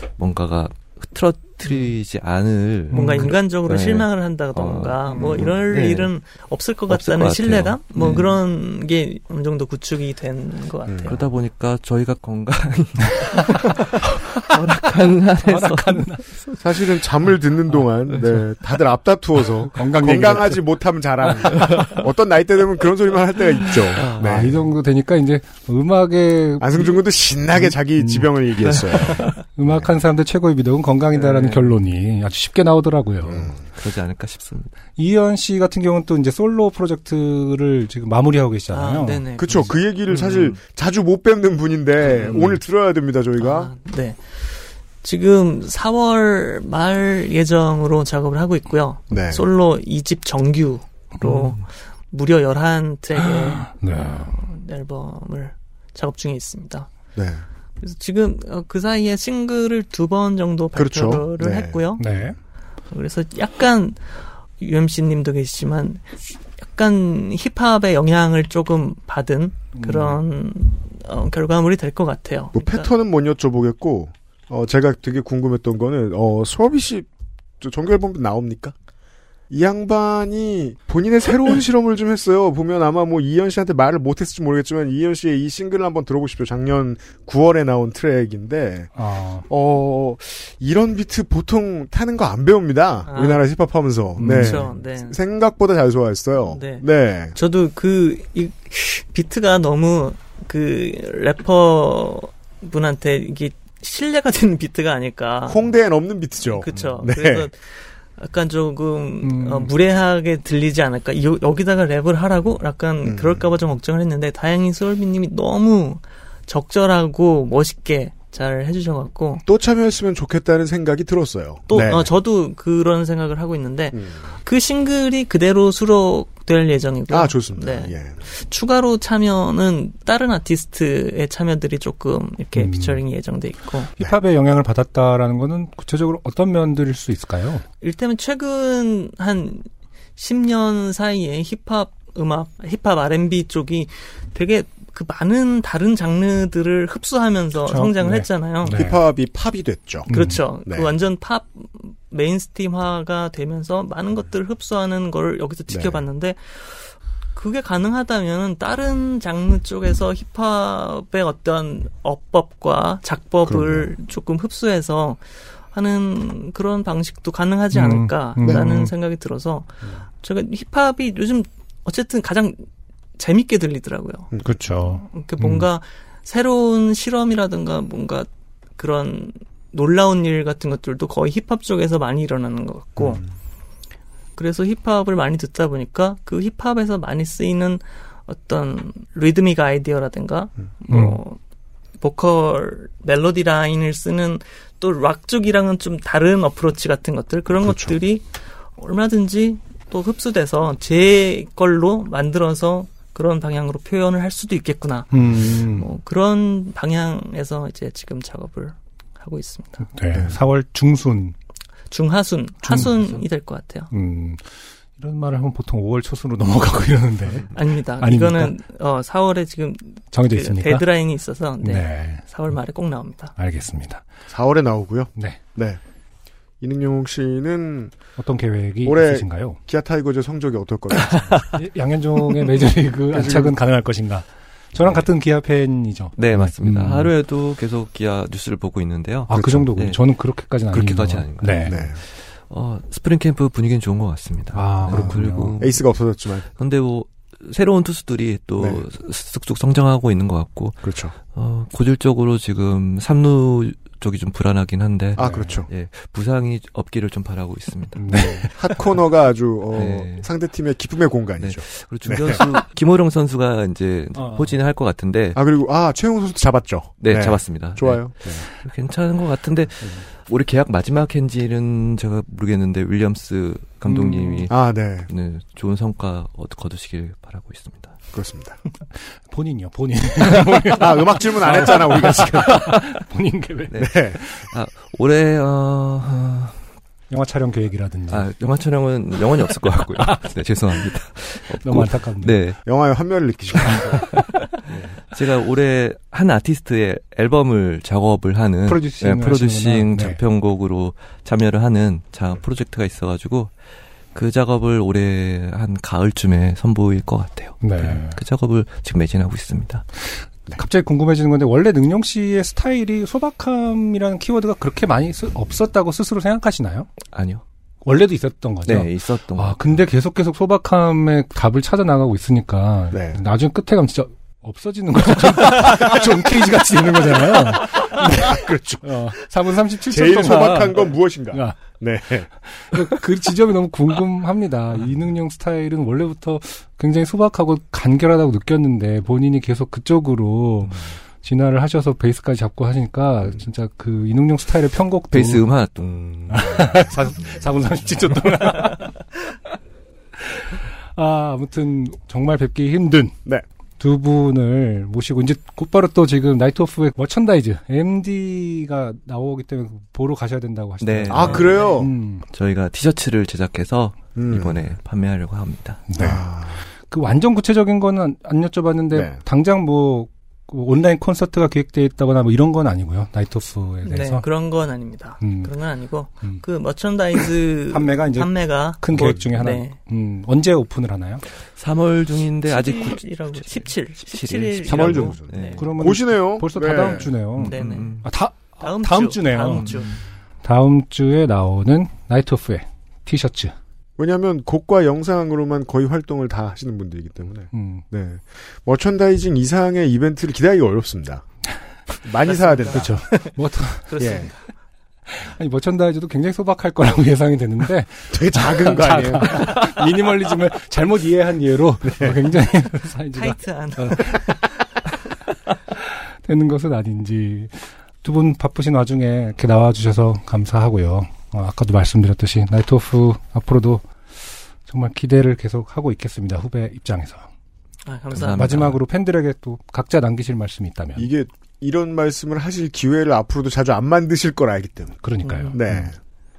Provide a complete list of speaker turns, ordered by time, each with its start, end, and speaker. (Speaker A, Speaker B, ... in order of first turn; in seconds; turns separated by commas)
Speaker A: 0.2-6.1, Speaker B: 2.9-11.2, Speaker C: 2.9-3.3, Speaker C: 5.1-5.4, Speaker A: 6.9-8.4, Speaker D: 10.9-11.1, Speaker A: 11.0-13.7, Speaker A: 14.5-16.3, Speaker C: 15.4-16.6, Speaker D: 16.6-24.6, Speaker C: 17.7-18.5, Speaker C: 19.7-22.0, Speaker A: 21.5-22.0, Speaker A: 23.7-24.5, Speaker C: 24.0-28.4, Speaker D: 26.6-29.9, Speaker A: 28.6-29.4, Speaker C: 29.0-33.5, Speaker A: 31.1-31.8, Speaker A: 33.3-34.7, Speaker D: 33.3-33.6, Speaker C: 35.0-39.2, Speaker B: 38.7-39.7, Speaker D: 39.4-43.7, Speaker A: 39.5-40.6, Speaker A: 42.0-42.6, Speaker B: 43.4-56.9, Speaker D: 49.1-49.5, Speaker A: 51.2-51.5, Speaker C: 53.2-54.3, Speaker D: 57.1-57.4, Speaker B: 57.8-62.2, Speaker D: 60.7-61.8, Speaker C: 62.0-62.4, Speaker B: 62.9-72.9, Speaker C: 69.7-70.2, Speaker D: 72.5-77.1, Speaker D: 77.6-78.7, Speaker D: 79.5-88.9, Speaker C: 89.0-89.5, Speaker D: 89.4-97.3, Speaker B: 93.0-93.5, Speaker C: 94.2-94.7, Speaker B: 94.2-95.2, Speaker B: 96.4-105.7, Speaker D: 105.5-107.5, Speaker B: 106.4-119.4, Speaker C: 109.2-109.7, Speaker D: 113.0-113.5, Speaker D: 119.4-122.1, Speaker B: 121.7-133.9, Speaker D: 123.9-124.3, Speaker D: 127.1-128.2, Speaker C: 132.5-133.0, Speaker C: 133.9-137.6, Speaker B: 137.8-148.8, Speaker C: 147.6-149.0, Speaker D: 148.7-150.1, Speaker B: 150.1-172.7, Speaker C: 150.1-150.4, Speaker D: 150.7-151.0, Speaker D: 155.7-156.0, Speaker D: 163.4-163.9, Speaker C: 167.7-168.9, Speaker D: 168.4-168.7, Speaker B: 173.2-174.4, Speaker D: 174.3-174.6, Speaker C: 174.4-175.7, Speaker B: 174.9-183.2, Speaker D: 183.0-183.2, Speaker B: 184.3-191.4, Speaker C: 190.9-191.2, Speaker B: 192.0-209.9, Speaker D: 197.6-197.9, Speaker C: 205.1-205.9, Speaker C: 209.9-211.3, Speaker B: 211.9-213.9, Speaker C: 212.6-212.9, Speaker A: 212.7-213.3, Speaker C: 213.9-218.6, Speaker B: 217.5-223.3, Speaker C: 220.1-220.9, Speaker C: 221.6-222.6, Speaker C: 223.3-224.0, Speaker D: 224.3-225.8, Speaker D: 226.6-227.9, Speaker C: 228.2-229.6, Speaker D: 228.8-231.5, Speaker C: 231.5-237.1, Speaker D: 233.1-233.6, Speaker A: 236.2-246.0, Speaker C: 239.3-241.8, Speaker D: 239.3-239.7, Speaker D: 241.7-242.0, Speaker C: 244.5-245.6, Speaker D: 244.9-246.5, Speaker A: 246.6-258.5, Speaker D: 248.6-248.8, Speaker D: 250.8-251.1, Speaker D: 255.2-255.7, Speaker C: 255.2-255.6, Speaker C: 257.9-258.9, Speaker D: 258.1-262.5, Speaker A: 259.7-260.3, Speaker A: 261.4-265.4, Speaker C: 264.1-264.5, Speaker D: 265.3-268.5, Speaker A: 267.0-278.0, Speaker D: 273.9-275.1, Speaker C: 273.9-274.4, Speaker D: 278.1-278.6, Speaker C: 278.9-284.5, Speaker D: 280.5-282.8, Speaker A: 283.7-286.6, Speaker D: 283.8-284.2, Speaker C: 287.1-288.3, Speaker A: 288.1-292.6, Speaker C: 290.0-290.3, Speaker C: 291.6-292.5, Speaker D: 292.6-294.2, Speaker A: 293.6-303.5, Speaker C: 293.6-294.2, Speaker C: 298.6-300.2, Speaker A: 304.1-309.8, Speaker C: 307.6-308.2, Speaker C: 310.1-316.9, Speaker A: 317.1-317.4, Speaker C: 317.8-331.8, Speaker A: 318.6-319.8, Speaker D: 322.9-323.2, Speaker D: 325.5-326.2, Speaker D: 327.2-329.1, Speaker D: 329.9-333.0, Speaker C: 332.4-345.5, Speaker A: 345.1-347.3, Speaker C: 346.3-349.0, Speaker C: 350.2-353.1, Speaker C: 353.8-362.2, Speaker A: 360.8-365.9, Speaker D: 361.1-361.9, Speaker B: 361.2-361.7, Speaker D: 364.1-364.6, Speaker C: 365.9-374.2, Speaker D: 366.0-366.7, Speaker D: 368.9-369.2, Speaker B: 373.8-379.8, Speaker C: 375.2-375.5, Speaker C: 377.7-381.2, Speaker A: 379.0-379.4, Speaker A: 381.4-385.7, Speaker B: 382.4-385.6, Speaker D: 384.6-387.2, Speaker C: 385.6-389.8, Speaker A: 387.3-388.1, Speaker B: 387.5-388.0, Speaker B: 388.6-389.9, Speaker A: 389.5-390.0, Speaker C: 390.4-393.5, Speaker D: 394.0-401.3, Speaker C: 397.5-397.8, Speaker D: 402.0-403.1, Speaker B: 402.2-404.5, Speaker C: 402.7-403.9, Speaker D: 404.0-404.3, Speaker C: 405.1-414.4, Speaker D: 408.1-409.6, Speaker D: 411.8-412.2, Speaker B: 413.1-414.6, Speaker C: 416.2-423.9, Speaker C: 424.6-427.3, Speaker B: 427.8-428.5, Speaker A: 428.1-428.8, Speaker C: 428.2-431.1, Speaker D: 430.9-435.9, Speaker C: 435.0-435.9, Speaker B: 435.2-435.6